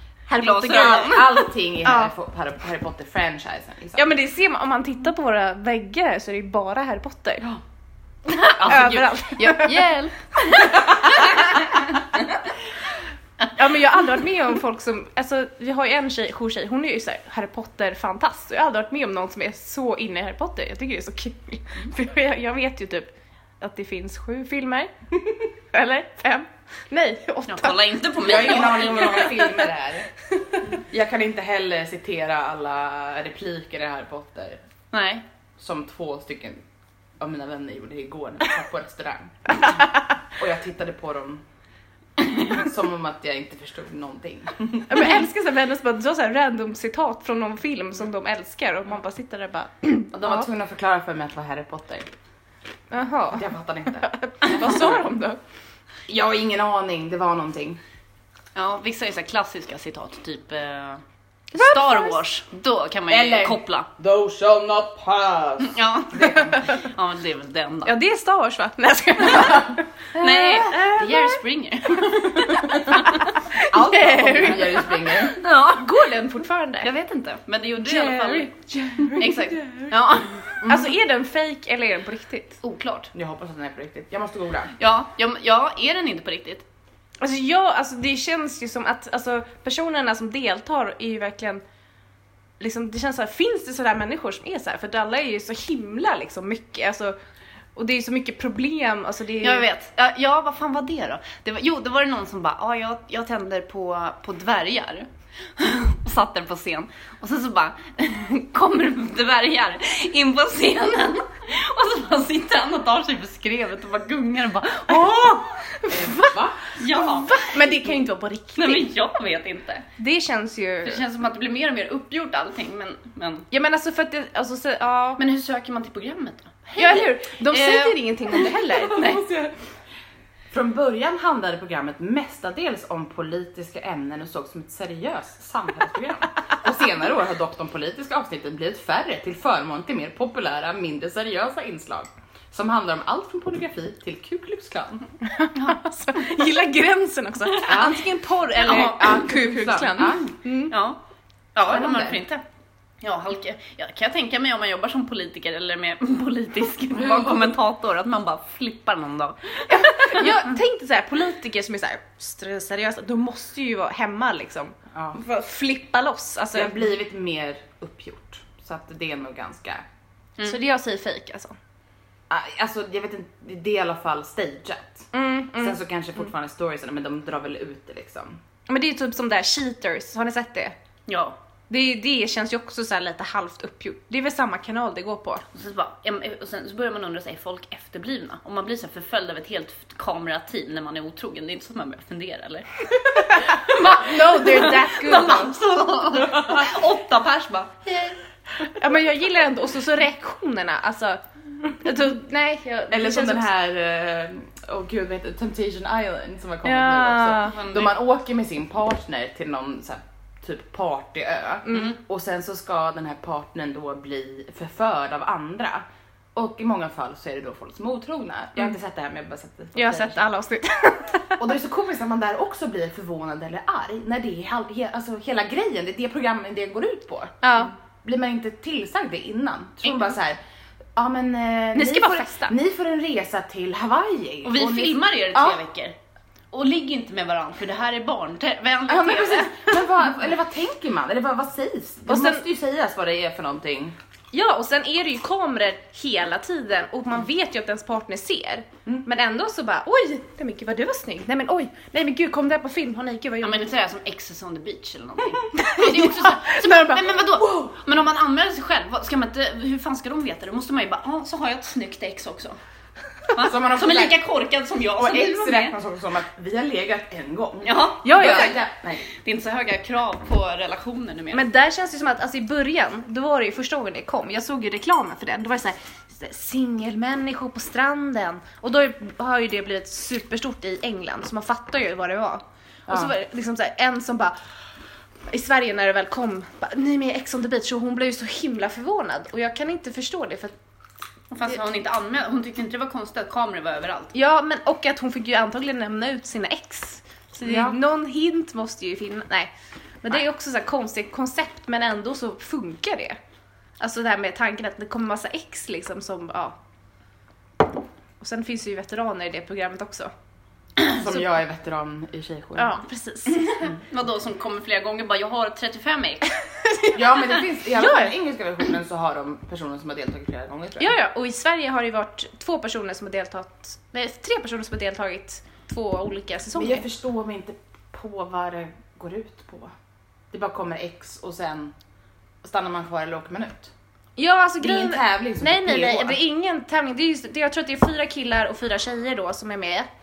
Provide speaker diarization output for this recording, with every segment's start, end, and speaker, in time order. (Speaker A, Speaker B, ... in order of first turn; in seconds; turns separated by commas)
Speaker A: 0.3-1.2, Speaker B: 0.4-1.4, Speaker C: 0.4-4.1, Speaker A: 1.8-2.1, Speaker A: 4.0-7.5, Speaker B: 8.3-12.0, Speaker A: 8.5-11.8, Speaker A: 13.5-24.9, Speaker A: 25.7-27.9, Speaker B: 27.5-29.4, Speaker C: 28.2-30.1, Speaker A: 28.6-29.7, Speaker C: 30.8-34.6, Speaker B: 34.9-35.2, Speaker C: 35.6-36.6, Speaker C: 37.2-41.4, Speaker C: 42.4-45.1, Speaker A: 44.9-50.5, Speaker C: 50.1-52.1, Speaker A: 52.9-55.4, Speaker C: 53.3-55.0, Speaker C: 56.1-57.8, Speaker B: 58.5-63.9, Speaker A: 61.5-62.2, Speaker C: 63.1-66.7, Speaker B: 65.7-68.0, Speaker A: 66.2-66.9, Speaker A: 67.8-71.3, Speaker B: 70.2-73.3, Speaker C: 70.2-70.9, Speaker A: 72.2-76.9, Speaker C: 73.6-75.4, Speaker B: 74.5-76.1, Speaker B: 76.8-78.6, Speaker A: 77.8-79.9, Speaker B: 79.2-80.6, Speaker A: 80.6-82.6, Speaker B: 82.6-83.1, Speaker C: 83.1-84.7, Speaker B: 84.8-86.6, Speaker A: 87.2-91.6, Speaker A: 92.6-97.2, Speaker A: 97.8-99.7, Speaker B: 99.4-115.3, Speaker C: 114.9-117.0, Speaker A: 115.8-116.3, Speaker B: 116.8-117.6, Speaker A: 116.9-118.9, Speaker B: 118.6-119.9, Speaker A: 120.0-121.0, Speaker B: 120.8-123.5, Speaker A: 123.5-125.2, Speaker B: 125.2-129.3, Speaker A: 126.8-129.1, Speaker C: 128.7-129.5, Speaker C: 130.5-145.1, Speaker A: 145.3-150.8, Speaker C: 147.6-150.3, Speaker B: 148.7-149.1, Speaker B: 150.7-151.0, Speaker B: 151.6-152.4, Speaker C: 151.7-152.2, Speaker B: 153.0-160.4, Speaker A: 159.7-166.8, Speaker C: 164.9-165.2, Speaker C: 166.5-169.8, Speaker A: 170.4-171.6, Speaker C: 172.3-178.4, Speaker A: 175.1-175.8, Speaker A: 178.7-180.8, Speaker B: 181.1-181.4, Speaker A: 181.7-185.4, Speaker B: 185.5-198.2, Speaker A: 193.2-195.6, Speaker A: 198.6-203.5, Speaker C: 202.9-220.2, Speaker A: 206.6-207.6, Speaker B: 207.5-208.0, Speaker A: 211.7-211.9, Speaker B: 211.7-212.0, Speaker A: 219.7-221.4, Speaker C: 221.4-230.4, Speaker A: 227.4-227.7, Speaker A: 229.8-230.1, Speaker C: 230.9-235.6, Speaker A: 231.7-232.6, Speaker B: 234.4-235.9, Speaker B: 236.5-239.8, Speaker C: 238.9-243.9, Speaker A: 242.1-242.4, Speaker A: 244.3-253.7, Speaker B: 253.4-262.6, Speaker A: 255.5-257.6, Speaker B: 263.3-265.8, Speaker C: 263.4-264.2, Speaker C: 264.9-269.0, Speaker B: 267.6-271.5, Speaker A: 268.0-268.6, Speaker A: 271.3-284.4, Speaker A: 285.3-290.5, Speaker B: 291.3-294.1, Speaker A: 294.1-303.2, Speaker C: 297.4-297.8, Speaker A: 303.8-306.6, Speaker A: 308.2-310.1, Speaker C: 310.9-312.8, Speaker A: 312.6-313.4, Speaker B: 313.3-316.4, Speaker C: 316.9-321.0, Speaker A: 317.8-318.1, Speaker A: 320.8-326.9, Speaker C: 326.6-329.7, Speaker C: 330.3-331.7, Speaker C: 332.4-333.7, Speaker A: 334.2-339.9, Speaker C: 334.6-336.2